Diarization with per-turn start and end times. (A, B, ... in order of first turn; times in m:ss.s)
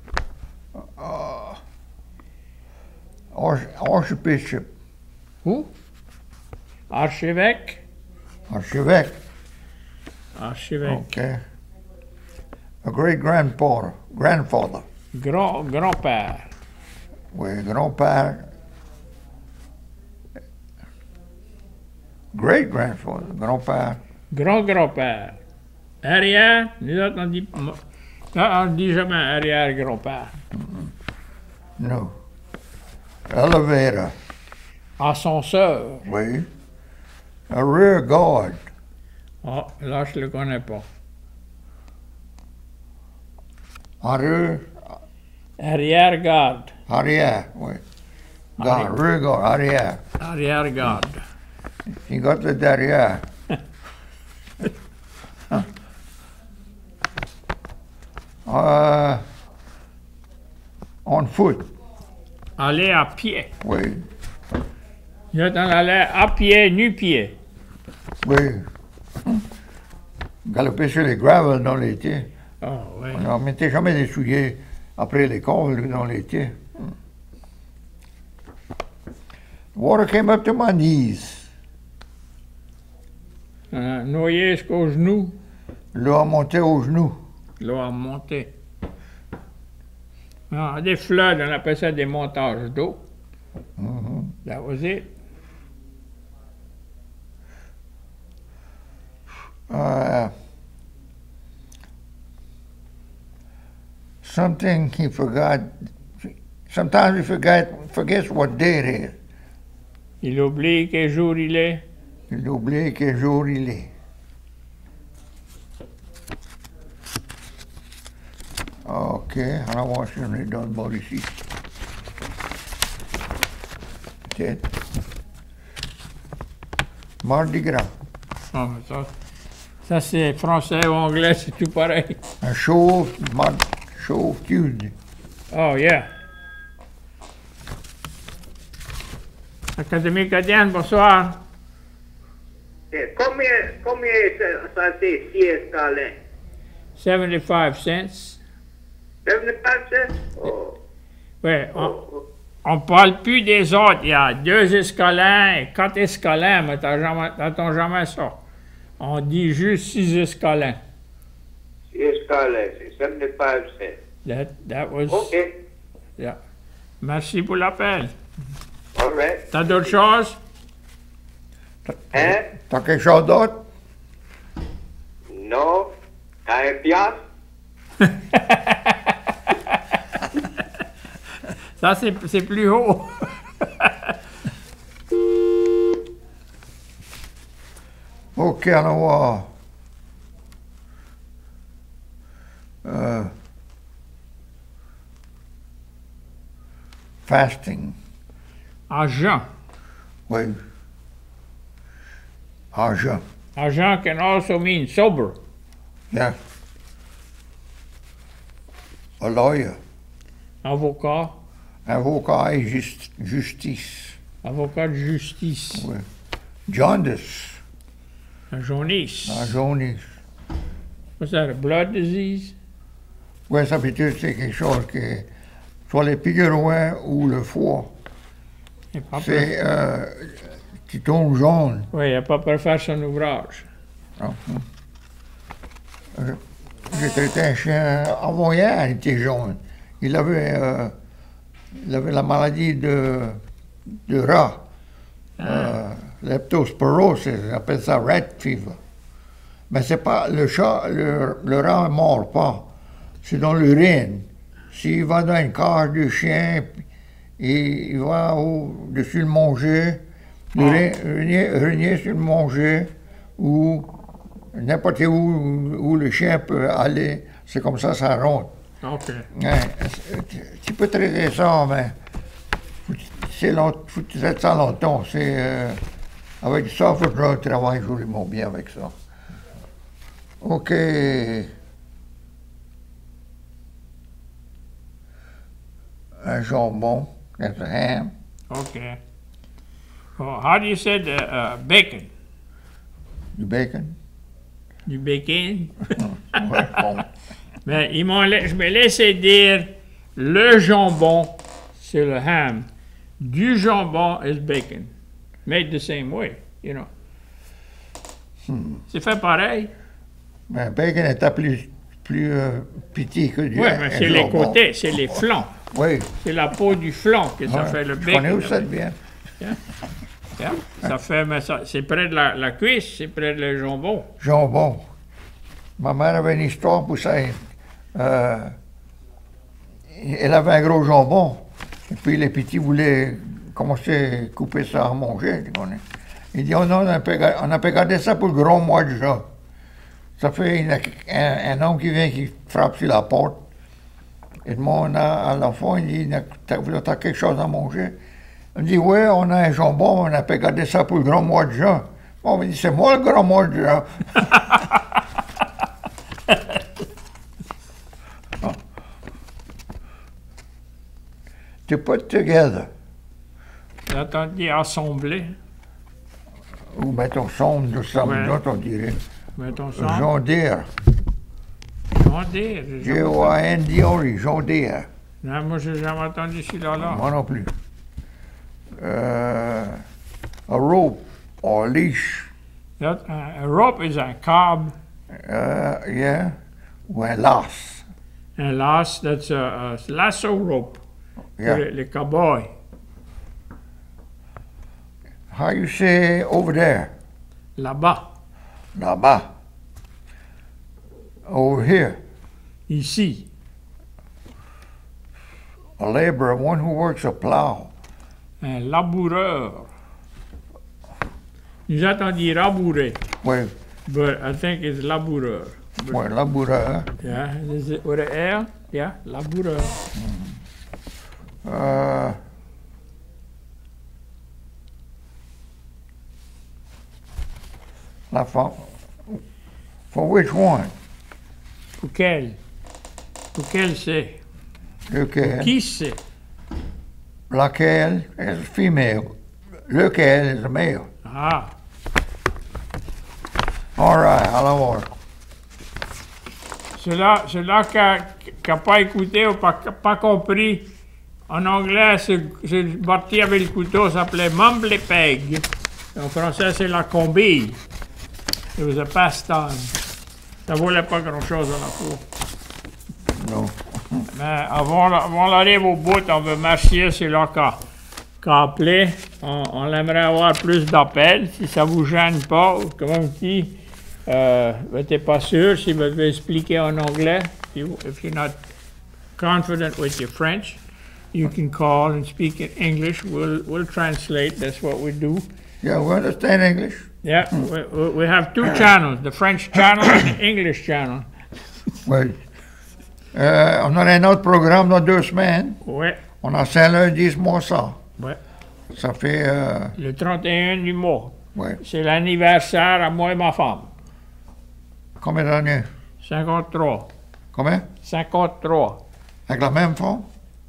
0:00.8-0:01.6 A
0:03.3-0:04.7 A
0:05.4-0:05.7 B
0:06.9-0:07.8 B
0:08.5-0:09.2 A
0:10.4-0:11.0 B
0:10.8-0:11.4 A
0:12.8-0:14.8 A
0:15.1-0:16.5 B
0:17.3-0:18.5 A
0:22.3-0:24.0 A
0:24.3-0:25.4 B
0:26.0-0:27.8 B
0:28.3-0:30.3 B
0:30.6-0:30.9 A
0:31.8-0:32.1 A
0:33.3-0:34.1 A
0:35.0-0:36.0 B
0:36.0-0:36.5 A
0:37.5-0:38.6 A
0:39.4-0:40.8 B
0:44.0-0:44.7 A
0:45.6-0:46.7 B
0:46.9-0:47.8 A
0:48.6-0:48.9 B
0:48.6-0:50.0 A
0:50.2-0:51.2 B
0:52.0-0:53.2 A
0:58.4-0:59.2 A
1:01.0-1:01.7 A
1:02.6-1:03.5 B
1:03.6-1:04.0 A
1:05.3-1:07.3 B
1:08.2-1:08.7 A
1:10.4-1:12.3 A
1:12.6-1:13.2 B
1:13.1-1:16.9 A
1:19.7-1:21.5 A
1:23.7-1:25.3 B
1:25.9-1:27.2 A
1:27.6-1:28.5 B
1:30.5-1:33.0 B
1:33.8-1:34.4 A
1:34.4-1:35.1 B
1:39.7-1:40.3 A
1:44.2-1:49.2 A
1:50.2-1:51.8 B
1:52.3-1:53.9 A
1:58.8-2:01.4 A
2:04.3-2:04.6 A
2:07.2-2:07.9 A
2:08.5-2:09.1 B
2:09.8-2:12.2 B
2:12.4-2:14.9 A
2:15.5-2:16.1 B
2:19.8-2:21.4 B
2:22.9-2:26.2 C
2:27.0-2:28.4 B
2:29.2-2:30.7 C
2:31.4-2:31.9 B
2:31.7-2:32.2 C
2:32.6-2:38.4 B
2:39.0-2:40.8 B
2:41.9-2:44.0 C
2:44.2-2:45.3 B
2:45.1-2:45.5 C
2:47.0-2:48.1 B
2:49.0-2:49.9 C
2:49.5-2:50.4 B
2:51.9-2:53.6 A
2:52.1-2:52.4 C
2:55.3-2:55.9 C
2:56.5-2:57.2 C
2:58.0-2:58.8 B
3:01.8-3:04.1 B
3:08.4-3:09.5 A
3:12.8-3:13.3 A
3:17.2-3:18.0 A
3:18.9-3:19.4 B
3:20.3-3:20.6 A
3:22.7-3:23.2 A
3:23.6-3:25.4 B
3:26.1-3:26.4 A
3:29.2-3:29.8 A
3:30.6-3:31.3 B
3:31.9-3:34.2 A
3:34.4-3:35.9 B
3:35.7-3:36.0 A
3:36.7-3:37.6 A
3:38.5-3:39.5 B
3:39.2-3:40.0 A
3:41.2-3:42.6 B
3:43.5-3:45.3 A
3:45.9-3:47.9 A
3:48.9-3:49.5 B
3:49.2-3:51.9 A
3:51.9-3:53.7 B
3:54.2-3:54.6 A
3:56.1-4:00.9 A
4:01.8-4:04.6 A
4:05.4-4:08.8 A
4:05.4-4:05.7 B
4:09.7-4:12.7 A
4:13.2-4:16.8 A
4:17.4-4:20.0 A
4:20.5-4:23.9 A
4:20.6-4:20.8 B
4:24.5-4:28.5 A
4:28.8-4:29.3 B
4:29.3-4:31.9 A
4:32.9-4:35.8 A
4:36.4-4:38.9 A
4:40.4-4:41.5 A
4:46.2-4:48.1 A
4:48.5-4:49.0 B
4:50.2-4:52.1 B
4:53.4-4:54.0 A
4:54.9-4:56.8 B
4:56.3-4:57.0 A
4:57.6-5:02.7 B
5:03.2-5:04.9 B
5:05.4-5:06.9 B
5:08.5-5:08.8 A
5:08.9-5:09.7 B
5:10.5-5:16.1 A
5:13.6-5:15.5 B
5:16.2-5:18.7 B
5:17.5-5:19.0 A
5:20.4-5:24.1 B
5:24.2-5:24.8 A
5:25.8-5:28.6 A
5:29.9-5:39.2 A
5:40.2-5:43.4 A
5:44.4-5:48.0 A
5:48.6-5:54.2 A
5:54.3-5:54.6 B
6:01.7-6:02.7 A
6:03.9-6:05.3 B
6:06.7-6:09.0 A
6:08.0-6:08.4 B
6:09.4-6:10.1 B
6:09.7-6:10.7 A
6:11.9-6:13.3 B
6:12.8-6:14.9 A
6:15.2-6:17.1 B
6:16.8-6:17.5 A
6:18.8-6:19.8 A
6:20.5-6:22.3 A
6:22.8-6:24.7 B
6:25.1-6:26.4 A
6:26.9-6:27.8 A
6:28.4-6:30.8 B
6:31.4-6:32.5 B
6:35.3-6:36.9 A
6:37.6-6:38.0 B
6:38.7-6:39.2 A
6:41.2-6:42.0 A
6:42.7-6:43.2 B
6:45.8-6:47.7 A
6:48.4-6:49.7 B
6:51.7-6:53.0 B
6:53.2-6:53.5 A
6:53.9-6:56.0 B
6:55.9-6:56.9 A
6:57.0-6:59.8 B
7:00.0-7:00.4 A
7:01.4-7:02.2 A
7:08.1-7:09.2 A
7:09.9-7:10.7 A
7:11.8-7:12.4 B
7:13.3-7:14.2 B
7:14.9-7:15.5 A
7:15.2-7:16.0 B
7:17.3-7:19.1 A
7:19.7-7:20.9 A
7:21.0-7:21.5 B
7:23.8-7:24.9 A
7:26.7-7:30.7 B
7:31.3-7:37.6 B
7:38.6-7:39.7 B
7:40.5-7:42.0 B
7:43.1-7:44.1 A
7:44.1-7:47.6 B
7:48.2-7:53.6 B
7:54.0-7:58.4 B
7:59.2-8:00.6 B
8:01.1-8:05.2 B
8:05.6-8:06.9 A
8:07.0-8:11.1 B
8:11.8-8:12.2 A
8:13.1-8:15.6 A
8:15.6-8:16.0 B
8:16.2-8:17.8 A
8:18.7-8:19.7 A
8:19.8-8:23.7 B
8:21.3-8:21.6 A
8:25.0-8:25.7 A
8:26.0-8:26.9 B
8:27.3-8:27.7 A
8:27.8-8:28.8 B
8:29.3-8:30.0 A